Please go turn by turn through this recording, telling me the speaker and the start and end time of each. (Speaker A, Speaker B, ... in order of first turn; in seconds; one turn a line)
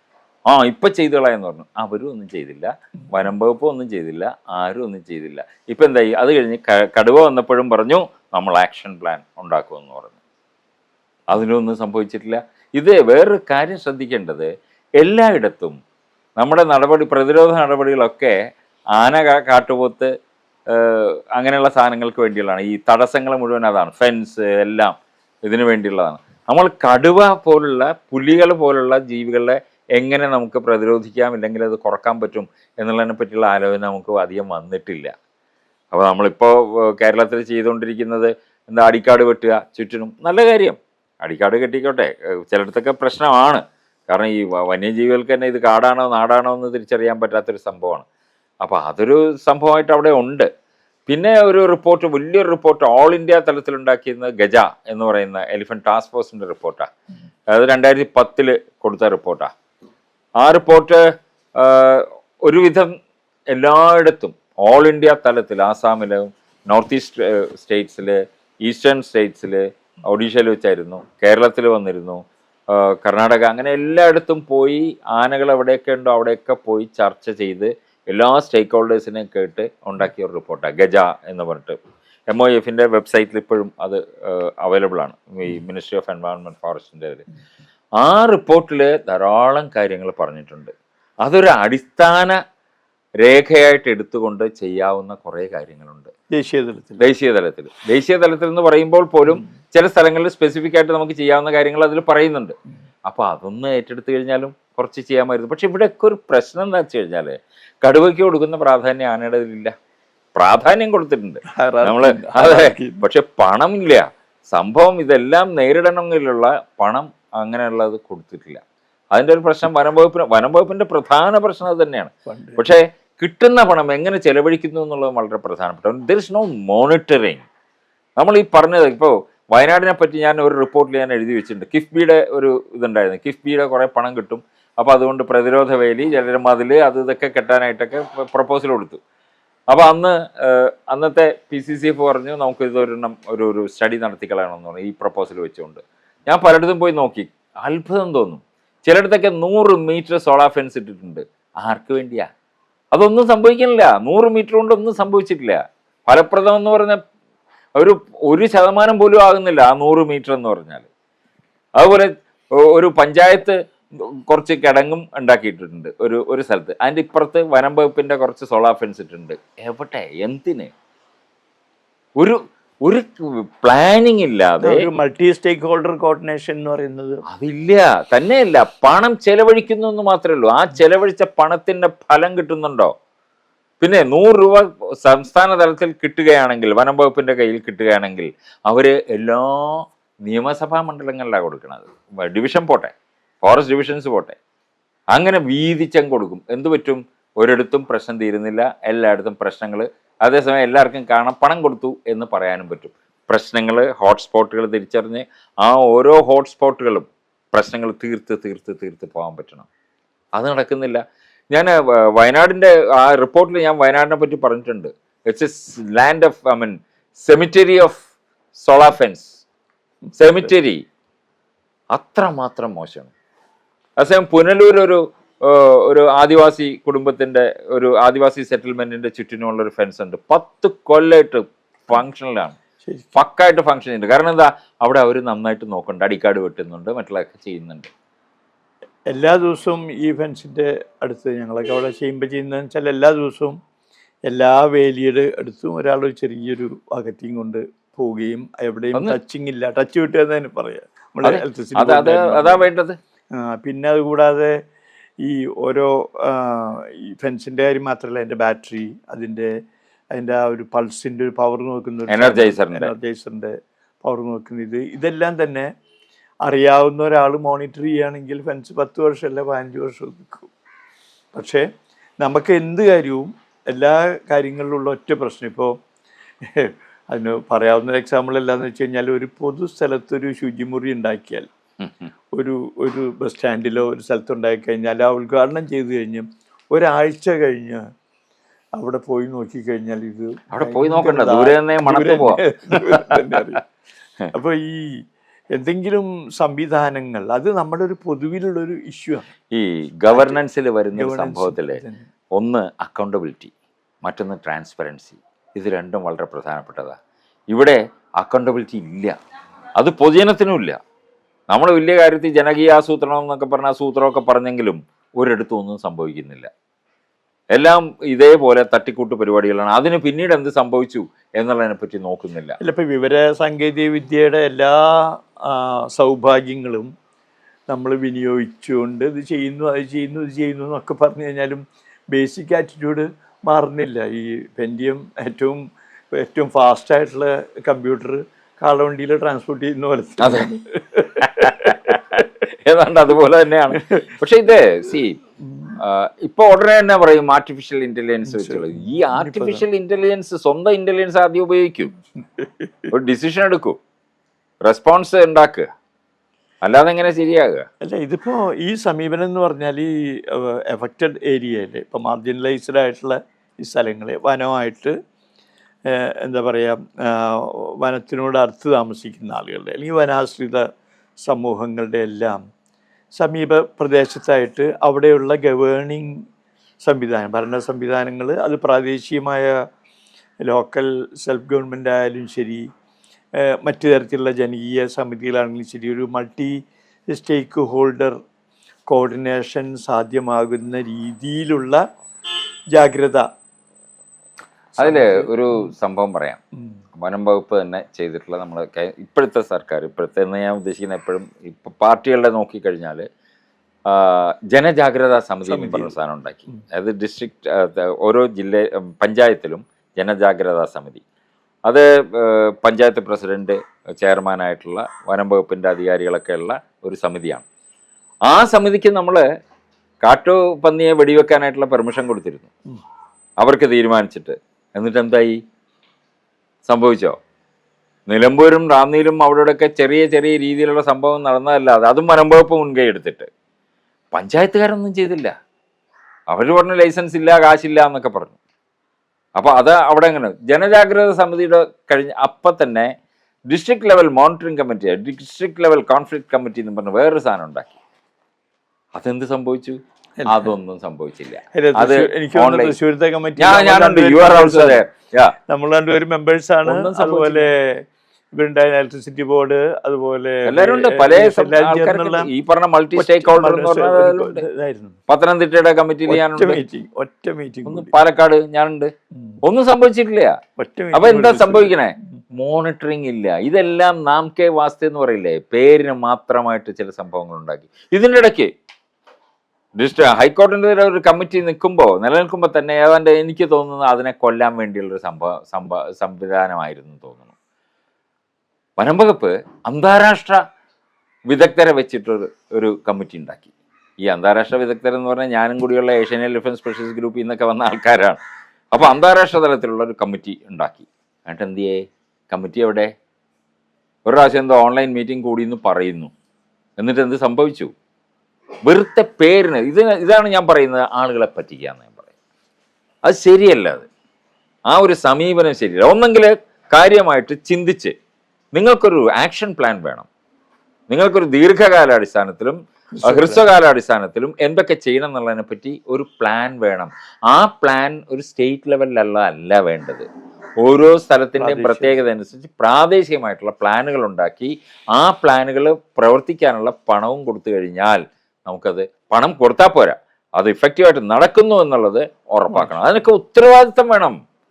Speaker A: 0.5-10.2
Speaker A: 11.3-15.8
Speaker A: 16.4-18.4
Speaker A: 19.0-20.1
Speaker A: 20.7-35.1
Speaker A: 35.9-48.0
Speaker A: 48.6-50.5
Speaker A: 51.1-56.9
Speaker A: 57.5-59.5
Speaker A: 60.4-61.0
Speaker A: 61.6-62.9
Speaker A: 63.5-81.8
Speaker A: 82.3-87.2
Speaker A: 88.0-90.7
Speaker A: 91.2-92.4
Speaker A: 93.2-96.1
Speaker B: 96.3-97.0
Speaker A: 97.0-102.5
Speaker A: 103.1-109.7
Speaker A: 110.3-118.6
Speaker B: 111.5-113.0
Speaker A: 119.1-127.5
Speaker B: 122.3-122.6
Speaker A: 128.2-139.0
Speaker A: 139.7-152.3
Speaker A: 152.9-157.0
Speaker A: 157.8-160.9
Speaker A: 161.8-170.7
Speaker A: 172.2-174.9
Speaker B: 174.6-177.2
Speaker A: 177.3-182.9
Speaker A: 183.8-194.4
Speaker A: 195.1-209.7
Speaker A: 210.4-218.0
Speaker A: 218.6-219.3
Speaker A: 220.2-220.8
Speaker B: 220.2-220.5
Speaker A: 221.9-223.1
Speaker A: 224.0-232.6
Speaker B: 232.8-233.1
Speaker A: 233.2-237.9
Speaker B: 239.1-243.6
Speaker B: 244.3-252.7
Speaker A: 251.2-253.0
Speaker B: 253.3-254.6
Speaker B: 255.2-259.5
Speaker B: 260.1-265.7
Speaker A: 262.1-262.9
Speaker B: 266.4-270.5
Speaker B: 271.3-271.7
Speaker B: 272.2-275.8
Speaker B: 276.4-281.5
Speaker A: 281.8-282.1
Speaker B: 282.3-287.8
Speaker B: 288.8-293.6
Speaker A: 290.5-293.5
Speaker B: 294.3-299.3
Speaker A: 299.5-301.8
Speaker B: 300.1-300.4
Speaker B: 300.9-302.1
Speaker A: 302.4-303.5
Speaker A: 304.0-307.0
Speaker A: 307.5-309.1
Speaker A: 309.8-310.8
Speaker A: 311.5-316.5
Speaker A: 317.5-322.6
Speaker B: 322.6-326.9
Speaker B: 327.7-342.3
Speaker A: 340.2-340.5
Speaker A: 341.2-345.2
Speaker B: 343.8-344.1
Speaker B: 345.4-345.8
Speaker A: 345.8-351.9
Speaker B: 348.3-349.6
Speaker B: 352.2-352.9
Speaker A: 352.9-353.8
Speaker A: 354.6-355.7
Speaker A: 356.6-357.6
Speaker B: 357.8-365.0
Speaker B: 365.9-370.7
Speaker B: 371.2-372.4
Speaker B: 373.1-376.2
Speaker B: 376.8-379.6
Speaker B: 380.4-382.6
Speaker B: 383.4-386.6
Speaker B: 387.1-388.2
Speaker B: 388.9-391.8
Speaker B: 392.7-393.3
Speaker B: 394.8-395.7
Speaker A: 394.8-396.4
Speaker A: 397.0-403.1
Speaker A: 403.9-411.0
Speaker B: 405.5-405.9
Speaker A: 411.7-417.4
Speaker A: 418.3-419.2
Speaker A: 420.0-422.5
Speaker A: 423.4-425.4
Speaker A: 426.7-427.2
Speaker A: 428.1-433.3
Speaker A: 434.1-435.3
Speaker A: 436.3-438.4
Speaker A: 439.4-442.9
Speaker A: 443.5-447.8
Speaker A: 448.9-452.7
Speaker B: 450.2-450.5
Speaker B: 451.5-454.9
Speaker A: 453.4-455.4
Speaker B: 455.5-462.3
Speaker A: 456.7-457.5
Speaker A: 460.5-464.4
Speaker B: 463.0-465.0
Speaker A: 465.1-466.6
Speaker B: 466.1-468.0
Speaker A: 467.7-468.9
Speaker A: 469.4-470.4
Speaker B: 470.6-471.8
Speaker A: 470.9-478.5
Speaker A: 479.8-487.3
Speaker A: 488.8-490.4
Speaker A: 491.3-498.2
Speaker A: 498.7-502.9
Speaker A: 504.1-506.1
Speaker A: 506.8-507.7
Speaker A: 508.6-512.1
Speaker A: 513.0-513.9
Speaker A: 514.7-517.9
Speaker A: 518.5-520.1
Speaker A: 520.9-530.1
Speaker B: 523.0-523.5
Speaker A: 530.6-544.2
Speaker B: 531.4-532.0
Speaker B: 542.5-542.9